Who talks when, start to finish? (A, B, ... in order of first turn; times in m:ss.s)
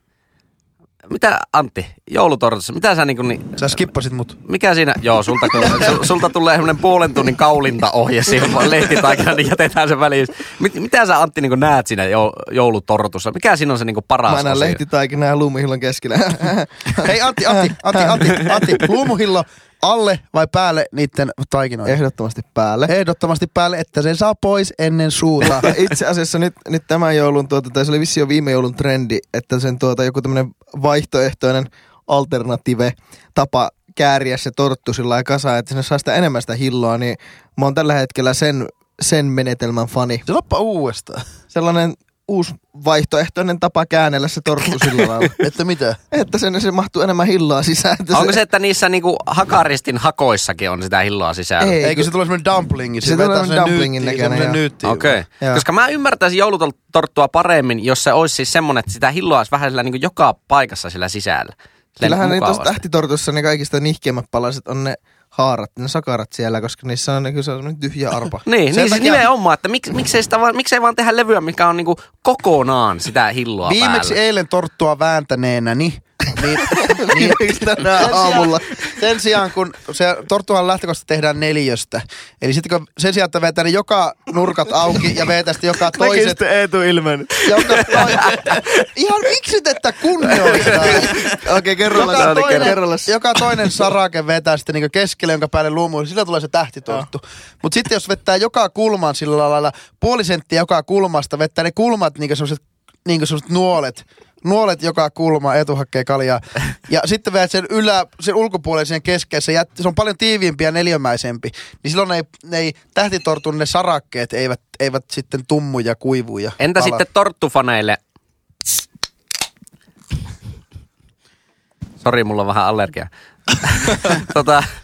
0:01.1-0:03.8 A
0:03.6-0:04.4 B
0:04.5-0:14.8 A
0:14.3-0:18.6 C
0:17.0-0:22.0 B
0:21.9-0:22.9 C
0:22.9-0:25.7 B
0:25.4-0:40.2 C
0:40.3-0:41.2 B
0:41.5-0:45.4 C
0:45.4-0:46.0 B
0:46.1-0:48.4 C
0:48.1-0:51.8 A
0:51.6-0:52.1 C
0:51.8-0:55.2 B
0:53.0-0:54.6 C
0:54.8-1:02.8 A
1:02.0-1:08.4 C
1:08.4-1:14.2 A
1:08.7-1:09.3 B
1:13.6-1:26.4 B
1:16.7-1:18.9 C
1:25.9-1:28.0 C
1:27.4-1:31.3 B
1:27.6-1:28.6 A
1:30.3-1:31.3 A
1:30.7-1:33.2 C
1:31.9-1:57.0 B
1:31.9-1:32.8 A
1:56.6-1:58.0 A
2:02.0-2:03.1 A
2:03.6-2:04.7 A